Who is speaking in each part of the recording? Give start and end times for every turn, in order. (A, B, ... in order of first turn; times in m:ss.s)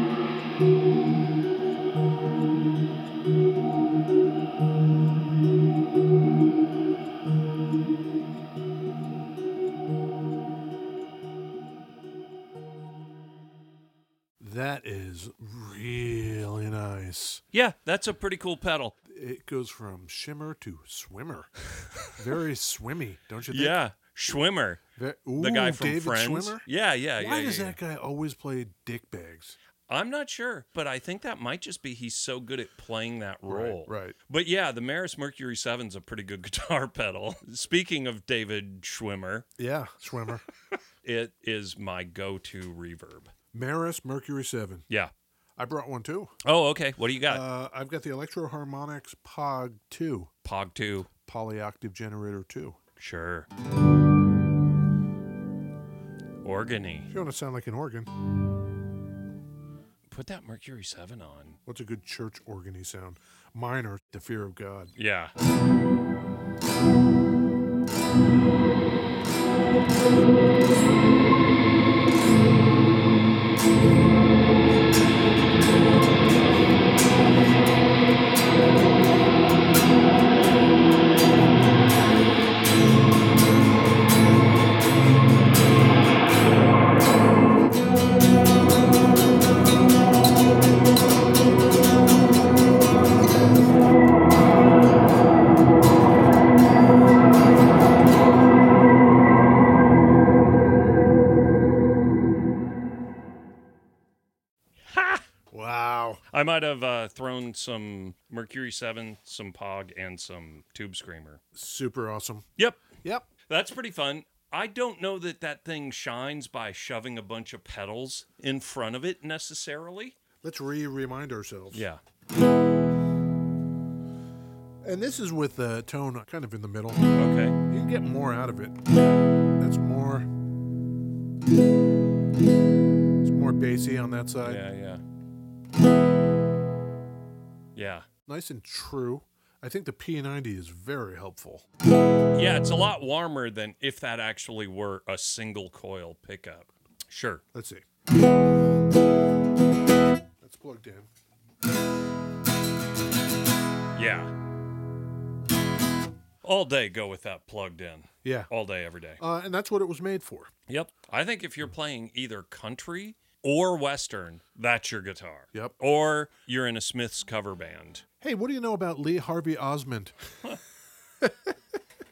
0:14.4-0:17.4 A
0:17.5-0:18.9 B
0:19.0-0:23.8 A
0:23.5-0:24.8 B
0:25.0-0:26.6 A
0:25.4-0:27.8 B
0:27.2-0:29.6 A
0:29.9-0:39.4 B
0:33.4-0:34.2 A
0:39.6-0:40.4 A
0:40.7-0:43.3 B
0:43.5-0:44.8 A
0:45.6-0:46.3 A
0:46.4-0:47.4 B
0:47.2-0:50.3 A
0:50.4-0:51.1 B
0:51.2-0:52.8 A
0:53.0-0:53.5 B
0:56.4-0:57.1 B
0:57.1-0:58.1 A
1:00.1-1:01.6 B
1:01.6-1:04.9 A
1:05.0-1:05.3 B
1:44.8-1:45.2 B
1:45.5-1:46.2 A
1:46.3-1:51.4 B
1:51.5-1:52.5 A
1:52.6-1:52.8 B
1:53.0-1:53.3 A
1:53.5-2:00.2 B
2:00.4-2:01.8 A
2:01.7-2:02.0 B
2:04.8-2:07.1 A
2:07.1-2:07.6 B
2:07.7-2:08.8 A
2:09.6-2:10.3 A
2:13.2-2:14.6 A
2:14.4-2:15.0 B
2:17.7-2:18.1 B
2:18.3-2:21.6 A
2:22.3-2:27.4 B
2:27.5-2:27.8 A
2:30.4-2:31.1 A
2:33.9-2:34.3 B
2:36.4-2:39.2 B
2:38.2-2:38.5 A
2:39.2-2:40.5 A
2:40.7-2:48.0 B
2:48.2-2:50.2 A
2:51.2-2:51.5 A